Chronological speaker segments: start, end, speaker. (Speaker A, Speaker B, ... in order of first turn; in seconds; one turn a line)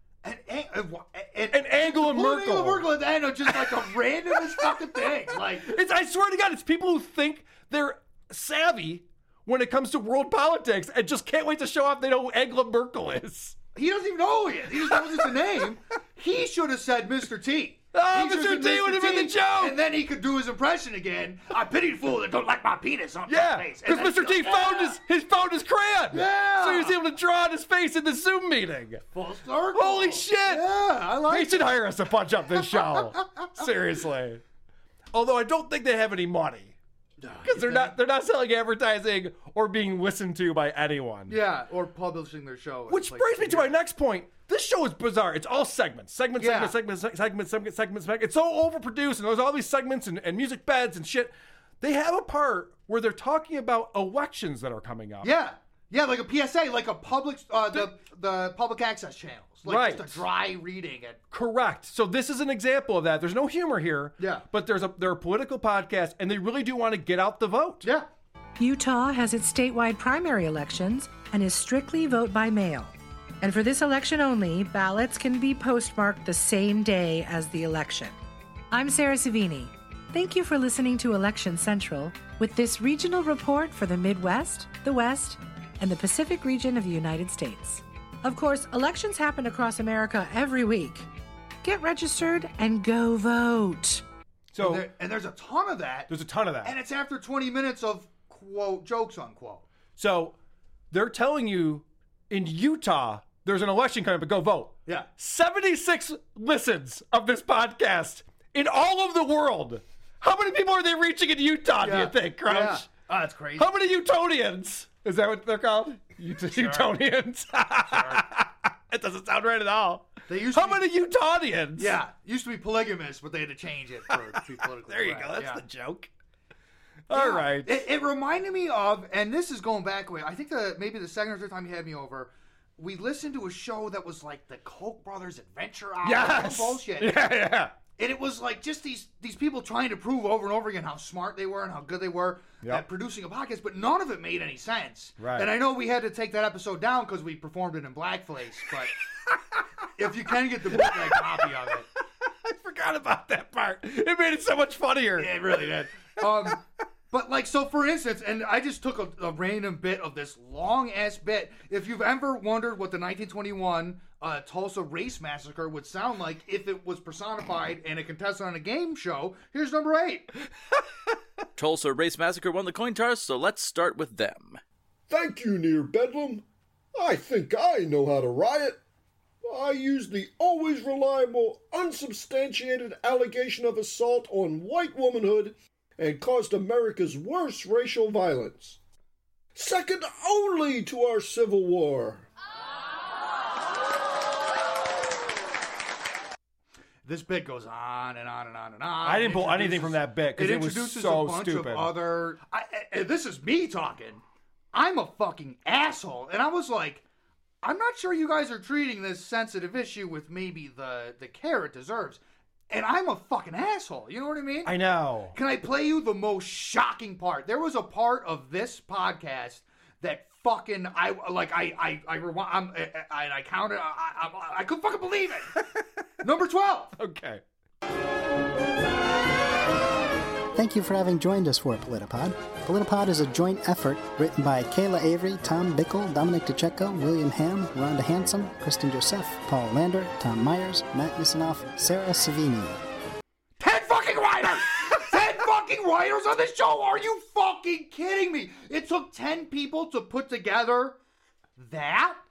Speaker A: 0.2-5.7
Speaker B: 1.5-2.9
Speaker B: 5.6-13.6
Speaker A: 13.7-25.0
Speaker B: 17.9-19.8
Speaker B: 23.3-29.0
Speaker A: 26.1-26.9
Speaker A: 29.1-31.8
Speaker B: 29.7-30.6
Speaker B: 31.3-34.4
Speaker A: 32.7-33.4
Speaker B: 35.1-36.7
Speaker A: 37.2-38.0
Speaker B: 37.5-41.4
Speaker A: 41.3-43.7
Speaker B: 42.9-55.3
Speaker A: 46.4-46.7
Speaker A: 55.2-61.2
Speaker B: 59.6-60.2
Speaker B: 61.3-67.8
Speaker A: 64.2-64.5
Speaker C: 68.6-78.2
Speaker C: 78.7-91.1
Speaker C: 91.6-94.0
Speaker B: 94.5-94.8
Speaker A: 94.6-96.1
Speaker B: 96.1-96.7
Speaker A: 96.6-99.7
Speaker B: 100.0-100.3
Speaker B: 100.9-112.9
Speaker A: 111.8-113.7
Speaker B: 113.6-121.9
Speaker A: 116.5-116.9
Speaker A: 117.9-118.2
Speaker A: 120.3-120.8
Speaker A: 121.8-125.6
Speaker B: 124.9-126.1
Speaker B: 127.1-127.8
Speaker A: 127.1-137.2
Speaker B: 136.0-137.7
Speaker A: 138.0-148.9
Speaker B: 145.2-145.5
Speaker A: 149.9-151.9
Speaker B: 150.8-151.3
Speaker B: 152.4-155.3
Speaker A: 155.2-156.6
Speaker A: 157.1-170.3
Speaker D: 171.6-174.6
Speaker E: 175.1-176.4
Speaker E: 176.9-178.8
Speaker E: 179.4-188.8
Speaker E: 189.5-192.2
Speaker A: 197.0-207.0
Speaker B: 199.0-201.9
Speaker A: 207.6-214.7
Speaker B: 214.6-215.3
Speaker A: 215.3-225.5
Speaker A: 226.2-226.9
Speaker B: 227.0-227.4
Speaker F: 230.5-242.8
Speaker A: 243.6-250.9
Speaker A: 251.6-252.2